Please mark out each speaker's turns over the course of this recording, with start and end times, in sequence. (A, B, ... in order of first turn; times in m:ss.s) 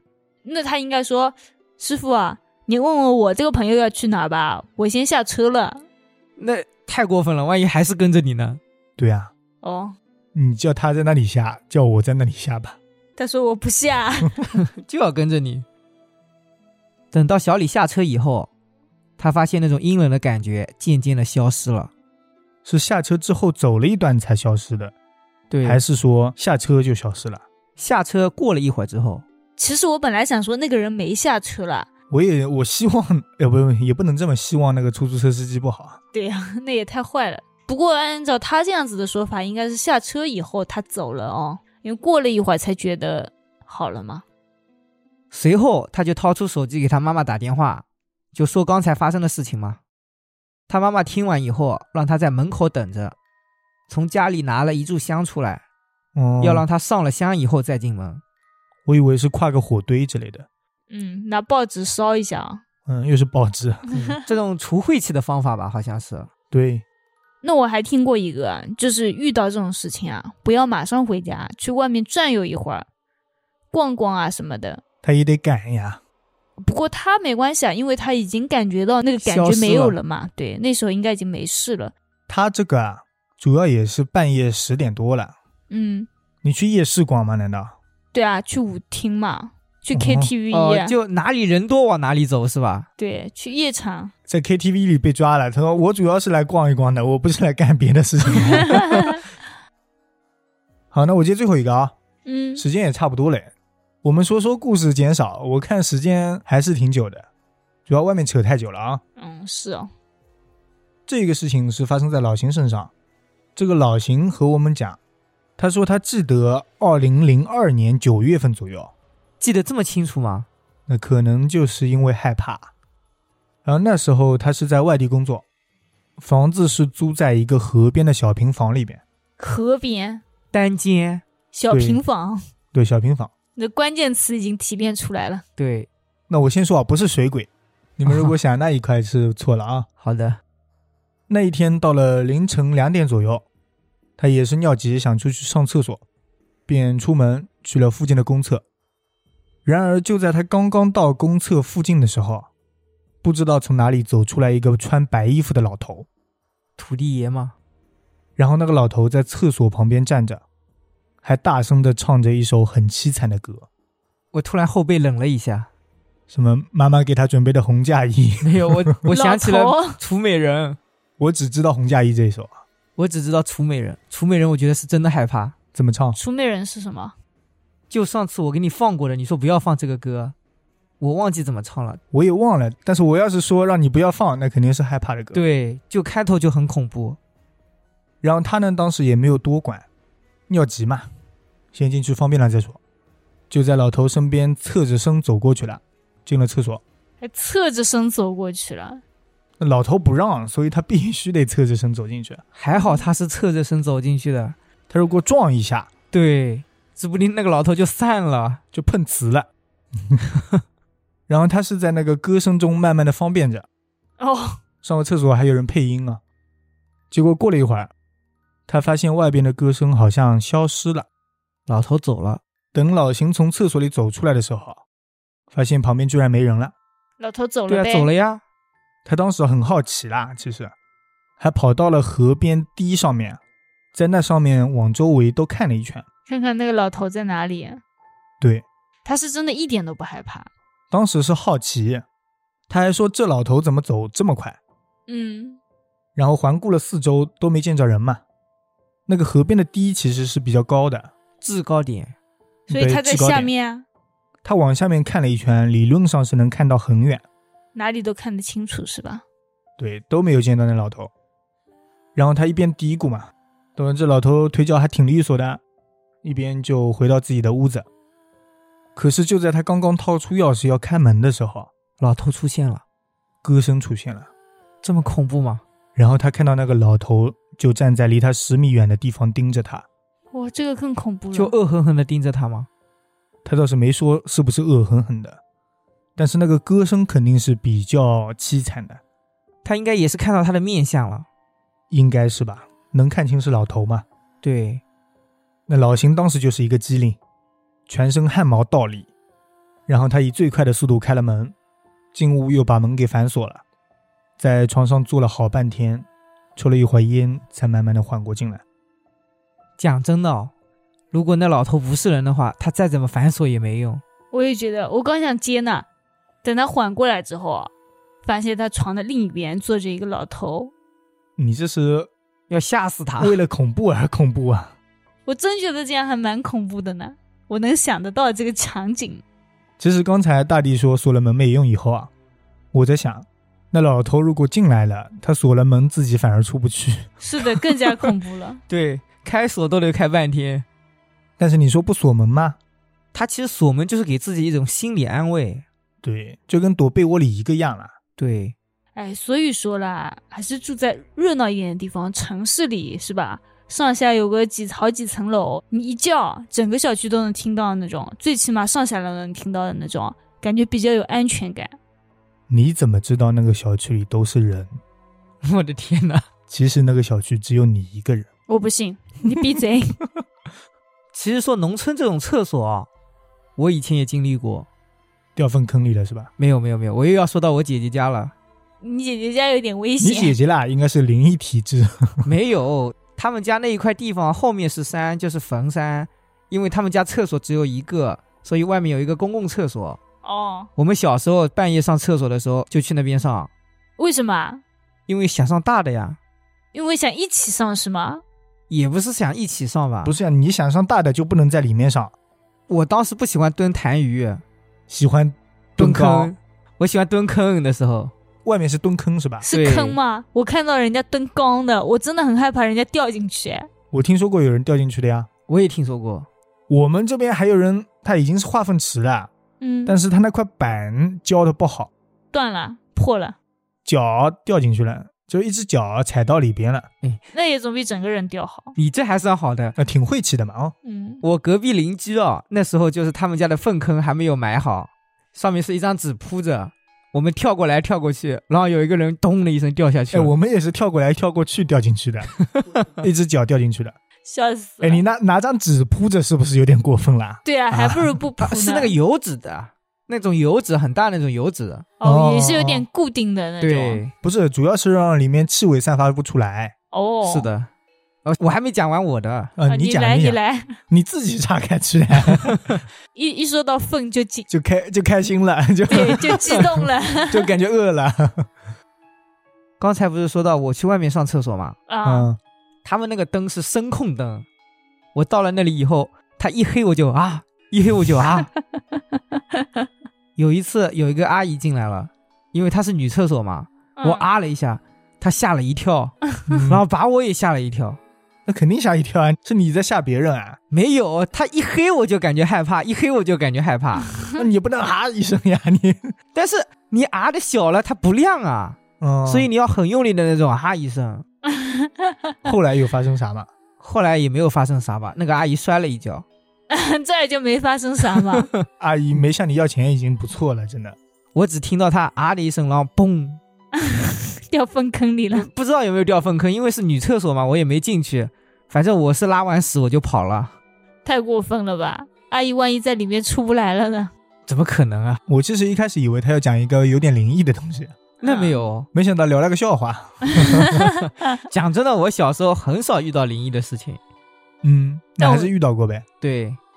0:00.4-0:05.8 A
0:06.4-0:08.6 B
0:09.0-0:09.3 C
0:09.6-0:10.0 A
0:10.3-0:12.8 C
0:13.2-0:14.4 A
0:14.5-0:15.6 B
0:17.1-0:18.5 B
0:19.2-0:21.9 B
0:22.6-0:24.9 C
0:25.5-0:25.8 B
0:25.6-0:27.4 C
0:27.8-0:29.2 B
0:29.6-0:31.9 A
0:32.1-0:36.0 C
0:36.1-0:44.2 A
0:45.3-0:49.8 B
0:50.7-0:53.2 B
0:53.9-0:55.6 B
0:56.1-0:56.6 C
0:56.4-0:58.2 B
0:58.8-1:00.5 C
1:00.9-1:02.6 A
1:02.8-1:03.9 C
1:03.9-1:06.3 B
1:06.5-1:06.8 C
1:07.4-1:12.8 A
1:13.7-1:14.8 A
1:15.0-1:16.0 C
1:16.6-1:21.9 A
1:19.2-1:20.0 B
1:22.3-1:25.3 C
1:25.7-1:26.1 A
1:26.4-1:27.7 C
1:28.1-1:31.0 A
1:29.9-1:30.3 C
1:30.5-1:32.9 B
1:33.0-1:34.1 A
1:34.3-1:39.2 C
1:38.6-1:39.2 A
1:40.9-1:41.9 C
1:42.2-1:42.6 A
1:42.6-1:43.5 C
1:44.0-1:47.3 C
1:47.9-1:49.0 C
1:49.2-1:49.9 A
1:51.1-1:52.9 C
1:53.6-1:55.0 C
1:55.6-1:58.9 C
1:59.4-2:00.5 B
2:00.9-2:02.7 C
2:03.6-2:05.4 C
2:06.2-2:09.0 C
2:09.4-2:10.2 A
2:10.5-2:11.2 B
2:11.5-2:12.4 A
2:11.7-2:12.0 C
2:12.7-2:13.3 C
2:13.6-2:15.4 A
2:15.6-2:15.9 B
2:16.3-2:19.9 C
2:20.0-2:20.4 B
2:21.3-2:23.4 C
2:24.2-2:26.0 C
2:26.7-2:28.6 C
2:29.6-2:32.5 C
2:33.2-2:36.1 C
2:36.8-2:37.5 B
2:38.4-2:40.4 C
2:41.2-2:43.7 C
2:44.3-2:45.7 B
2:46.3-2:48.8 C
2:48.4-2:50.8 B
2:49.1-2:50.0 A
2:51.2-2:52.5 C
2:53.0-2:55.5 B
2:55.7-2:56.2 C
2:56.1-2:57.2 A
2:57.9-3:00.3 B
3:01.0-3:02.0 B
3:02.1-3:05.4 C
3:05.3-3:07.2 B
3:08.2-3:09.8 C
3:10.5-3:11.1 C
3:11.7-3:12.8 C
3:13.5-3:16.8 C
3:17.2-3:19.0 A
3:19.6-3:22.4 C
3:22.6-3:24.6 B
3:22.8-3:23.1 A
3:24.9-3:25.9 C
3:26.1-3:28.6 B
3:28.7-3:29.5 C
3:31.3-3:33.7 C
3:34.2-3:34.6 A
3:34.8-3:36.2 C
3:37.1-3:37.9 C
3:38.7-3:41.1 C
3:41.7-3:42.4 B
3:42.7-3:44.8 C
3:45.5-3:46.7 C
3:47.2-3:48.1 A
3:47.7-3:48.4 B
3:49.0-3:50.7 C
3:51.4-3:53.4 C
3:53.9-3:56.0 C
3:56.3-3:57.8 A
3:58.4-3:58.6 C
3:59.0-4:00.5 A
4:00.9-4:02.0 C
4:02.7-4:04.6 C
4:05.1-4:05.6 A
4:06.2-4:08.2 C
4:09.1-4:11.1 C
4:11.4-4:12.1 B
4:12.7-4:13.5 C
4:12.7-4:13.8 A
4:14.4-4:17.2 C
4:17.7-4:19.2 A
4:19.8-4:21.1 C
4:22.1-4:25.6 C
4:26.2-4:27.9 C
4:28.9-4:31.7 C
4:32.0-4:32.8 B
4:33.4-4:34.3 C
4:34.8-4:35.6 B
4:35.9-4:39.8 C
4:40.3-4:41.5 A
4:41.3-4:42.7 B
4:43.4-4:45.4 C
4:46.2-4:49.0 C
4:49.6-4:51.3 B
4:51.9-4:54.0 C
4:54.4-4:54.8 B
4:55.7-4:57.2 C
4:57.9-4:59.1 C
4:59.9-5:01.5 C
5:02.1-5:03.6 C
5:04.4-5:08.6 C
5:09.8-5:10.5 B
5:11.1-5:14.0 B
5:14.3-5:15.9 A
5:16.4-5:17.7 A
5:18.2-5:20.7 A
5:21.4-5:22.1 C
5:22.5-5:23.4 B
5:23.2-5:24.7 C
5:25.2-5:29.2 A
5:29.8-5:32.1 C
5:32.7-5:37.1 C
5:37.2-5:38.6 A
5:38.7-5:40.6 B
5:41.4-5:42.6 C
5:43.1-5:45.6 B
5:46.0-5:47.9 C
5:48.2-5:48.6 B
5:48.9-6:01.8 A
6:02.5-6:04.8 C
6:05.4-6:06.2 B
6:06.5-6:08.3 C
6:08.5-6:10.0 A
6:11.1-6:12.9 B
6:13.6-6:14.7 B
6:15.4-6:16.3 C
6:16.4-6:18.3 B
6:18.8-6:20.3 A
6:20.0-6:22.3 C
6:22.2-6:30.0 B
6:30.2-6:30.7 A
6:30.8-6:33.5 B
6:34.0-6:34.6 A
6:35.1-6:36.2 B
6:36.7-6:38.2 A
6:38.7-6:40.1 B
6:40.0-6:42.1 C
6:42.7-6:44.4 B
6:44.9-6:46.3 C
6:45.8-6:48.1 B
6:48.4-6:49.4 C
6:49.4-6:53.7 A
6:49.5-6:50.0 B
6:53.9-6:55.3 C
6:55.5-6:56.3 B
6:56.7-6:59.3 C
6:59.6-7:00.0 A
6:59.8-7:01.9 C
7:02.3-7:03.4 A
7:03.8-7:06.9 C
7:07.3-7:08.7 A
7:08.8-7:09.8 B
7:09.8-7:10.7 C
7:10.8-7:11.2 A
7:11.2-7:20.3 B
7:20.1-7:22.3 C
7:22.4-7:22.9 B
7:23.0-7:24.0 C
7:24.2-7:25.0 A
7:24.8-7:28.0 C
7:27.4-7:28.9 A
7:28.4-7:31.9 B
7:32.0-7:34.0 A
7:32.0-7:32.9 C
7:33.6-7:34.1 B
7:34.2-7:36.7 C
7:36.9-7:37.5 A
7:37.2-7:37.7 B
7:38.2-7:39.5 B
7:39.6-7:42.7 C
7:39.7-7:40.7 A
7:42.4-7:42.8 B
7:43.1-7:44.5 A
7:44.5-7:48.5 C
7:45.9-7:47.5 A
7:49.8-7:51.8 B
7:51.9-7:52.3 A
7:52.0-7:52.4 C
7:52.8-7:54.4 B
7:55.1-7:58.5 B
8:00.4-8:08.0 B
8:04.0-8:04.3 A
8:08.4-8:10.6 C
8:10.7-8:14.1 B
8:14.1-8:14.4 A
8:14.4-8:16.1 C
8:16.3-8:21.2 B
8:19.0-8:19.5 C
8:21.4-8:22.3 A
8:22.4-8:23.5 C
8:23.8-8:26.2 B
8:26.7-8:28.5 A
8:28.3-8:28.6 B
8:28.8-8:31.0 C
8:31.3-8:33.4 B
8:33.8-8:35.5 A
8:35.3-8:40.5 B
8:41.0-8:44.1 A
8:44.5-8:45.2 B
8:45.3-8:48.0 C
8:48.2-8:48.9 B
8:48.2-8:48.6 A
8:48.9-8:50.9 C
8:50.3-8:50.8 A
8:51.0-8:54.0 B
8:54.6-8:56.0 C
8:55.2-8:55.5 A
8:56.2-8:56.6 B